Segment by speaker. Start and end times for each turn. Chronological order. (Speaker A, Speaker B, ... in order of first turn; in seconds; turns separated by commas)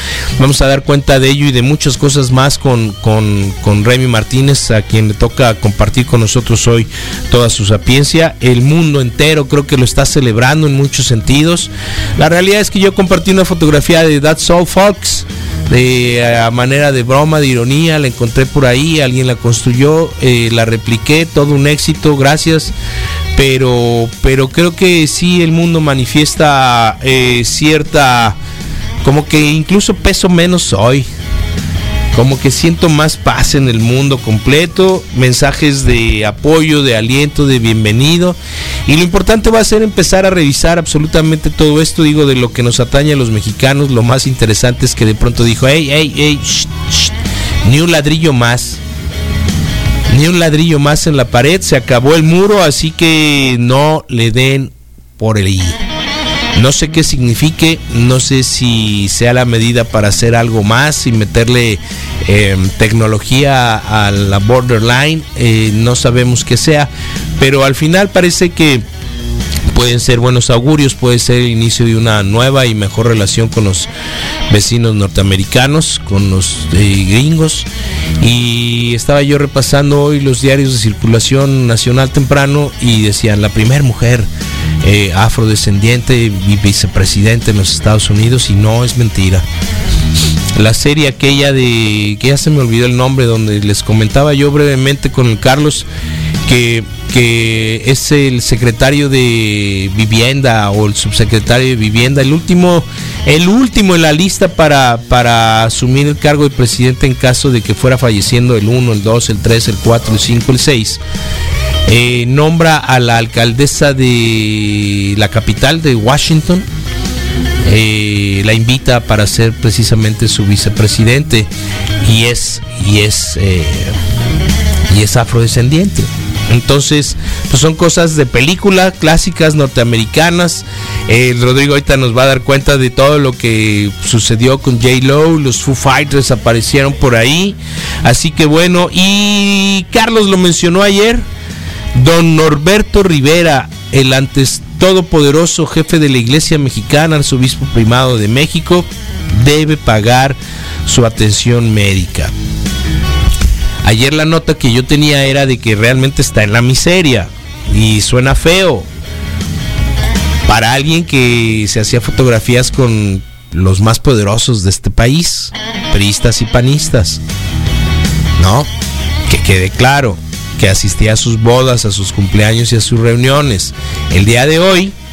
Speaker A: 0.4-22.7, Speaker A: 23.4-28.4, Speaker A: 29.0-31.1, Speaker A: 32.1-48.8, Speaker A: 50.1-55.8, Speaker A: 56.5-68.8, Speaker A: 69.7-73.9, Speaker A: 74.5-77.7, Speaker A: 78.2-84.3, Speaker A: 84.8-89.5, Speaker A: 90.5-95.9, Speaker A: 96.5-111.0, Speaker A: 111.9-116.7, Speaker A: 117.6-121.5, Speaker A: 122.0-124.0, Speaker A: 124.9-141.3, Speaker A: 141.9-152.3, Speaker A: 153.8-158.9, Speaker A: 160.5-167.2, Speaker A: 168.4-168.7, Speaker A: 169.3-174.9